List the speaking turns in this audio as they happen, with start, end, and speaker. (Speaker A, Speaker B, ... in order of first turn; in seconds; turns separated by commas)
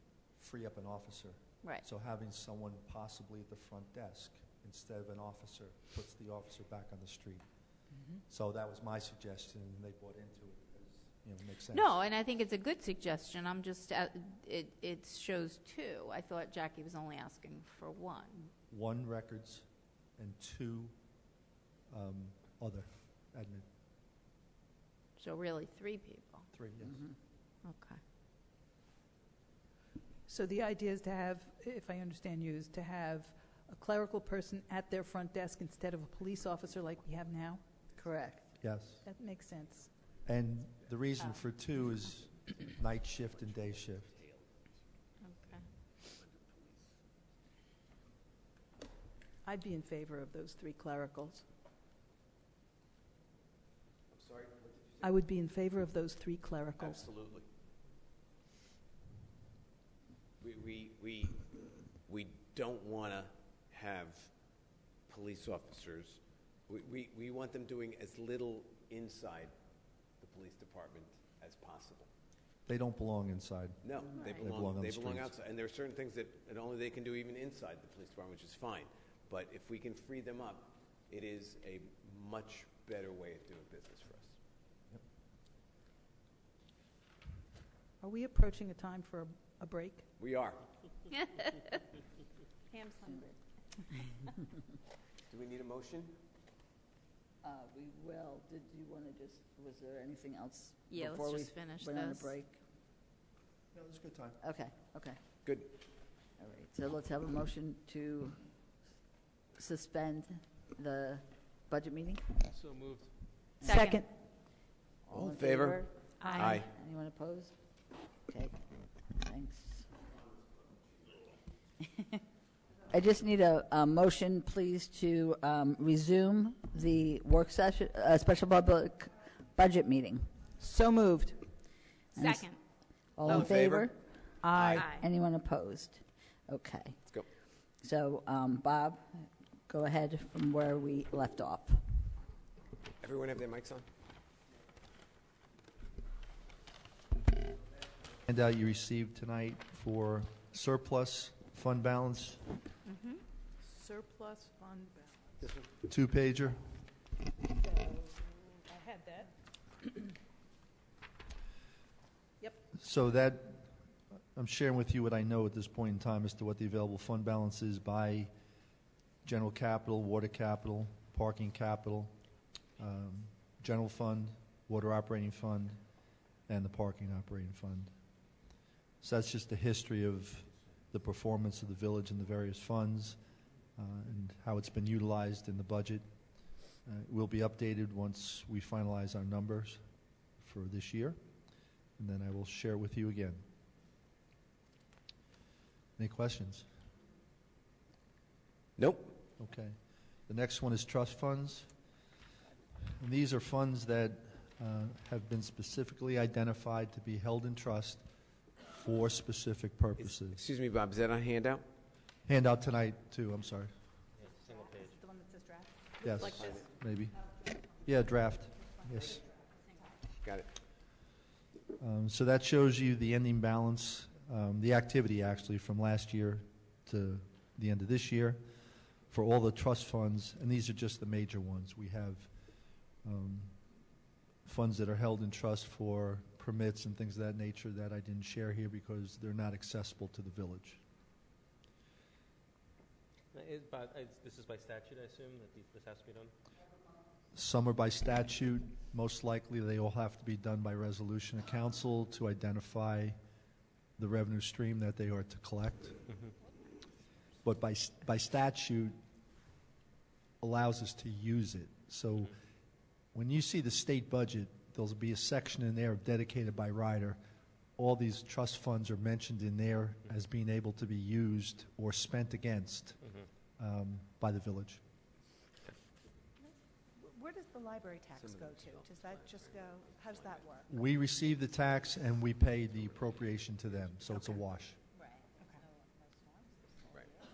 Speaker A: 0.3-7.4, Speaker A: 8.3-12.0, Speaker B: 11.7-18.5, Speaker A: 18.7-20.9, Speaker A: 21.9-23.7, Speaker B: 25.2-26.5, Speaker A: 26.5-27.0, Speaker B: 27.6-28.0, Speaker C: 30.3-37.6, Speaker D: 38.0-38.5, Speaker A: 38.6-39.0, Speaker C: 39.0-39.9, Speaker A: 40.2-44.1, Speaker E: 44.2-44.4, Speaker B: 45.2-45.7, Speaker E: 46.0-46.8, Speaker C: 49.4-51.5, Speaker E: 54.1-55.1, Speaker C: 55.0-57.1, Speaker E: 56.8-57.5, Speaker E: 60.4-61.5, Speaker E: 62.0-64.3, Speaker E: 65.1-69.5, Speaker E: 70.2-72.1, Speaker A: 72.7-75.3, Speaker E: 73.8-84.4, Speaker C: 88.0-90.1, Speaker E: 90.2-90.6, Speaker B: 91.2-91.5, Speaker D: 93.0-93.3, Speaker E: 95.3-96.2, Speaker D: 97.4-102.6, Speaker B: 100.9-102.3, Speaker A: 103.7-104.4, Speaker D: 104.4-105.2, Speaker E: 105.5-105.7, Speaker D: 106.4-108.4, Speaker D: 109.6-112.3, Speaker F: 112.5-113.1, Speaker D: 113.6-114.1, Speaker B: 113.7-114.0, Speaker C: 113.7-114.1, Speaker D: 115.0-117.5, Speaker E: 115.1-116.7, Speaker B: 116.2-116.6, Speaker D: 118.3-118.6, Speaker D: 119.1-119.9, Speaker D: 122.9-130.4, Speaker C: 130.6-131.4, Speaker D: 132.2-132.6, Speaker B: 132.2-132.5, Speaker D: 133.2-134.1, Speaker E: 133.3-133.9, Speaker C: 134.4-134.9, Speaker E: 134.6-134.9, Speaker B: 134.7-135.0, Speaker D: 134.8-137.0, Speaker D: 137.8-141.8, Speaker E: 143.0-143.9, Speaker A: 148.3-152.4, Speaker B: 152.9-153.2, Speaker C: 153.6-155.5, Speaker E: 155.4-155.7, Speaker A: 155.8-156.6, Speaker C: 157.5-159.3, Speaker A: 162.7-163.7, Speaker A: 164.3-168.3, Speaker A: 169.2-172.1, Speaker A: 172.8-175.8, Speaker A: 176.5-177.9, Speaker A: 179.0-183.2, Speaker A: 183.8-186.1, Speaker A: 186.8-189.8, Speaker A: 190.4-191.2, Speaker A: 192.0-193.4, Speaker A: 196.0-196.7, Speaker E: 198.8-199.2, Speaker A: 199.4-199.8, Speaker A: 200.3-201.7, Speaker A: 203.0-208.1, Speaker A: 208.7-210.4, Speaker E: 210.0-211.7, Speaker A: 212.3-213.7, Speaker F: 214.2-215.0, Speaker C: 215.0-216.5, Speaker A: 216.0-217.2, Speaker E: 216.4-216.7, Speaker A: 217.8-219.3, Speaker E: 220.2-220.5, Speaker A: 221.8-228.4, Speaker A: 229.1-232.3, Speaker A: 233.0-233.6, Speaker A: 234.4-240.8, Speaker F: 243.3-246.3, Speaker A: 247.3-253.2, Speaker A: 254.0-256.0, Speaker A: 257.4-259.0, Speaker A: 260.4-262.3, Speaker A: 263.1-267.2, Speaker A: 267.8-273.0, Speaker A: 273.6-274.8, Speaker G: 276.4-280.7, Speaker E: 278.1-280.5, Speaker A: 280.7-284.8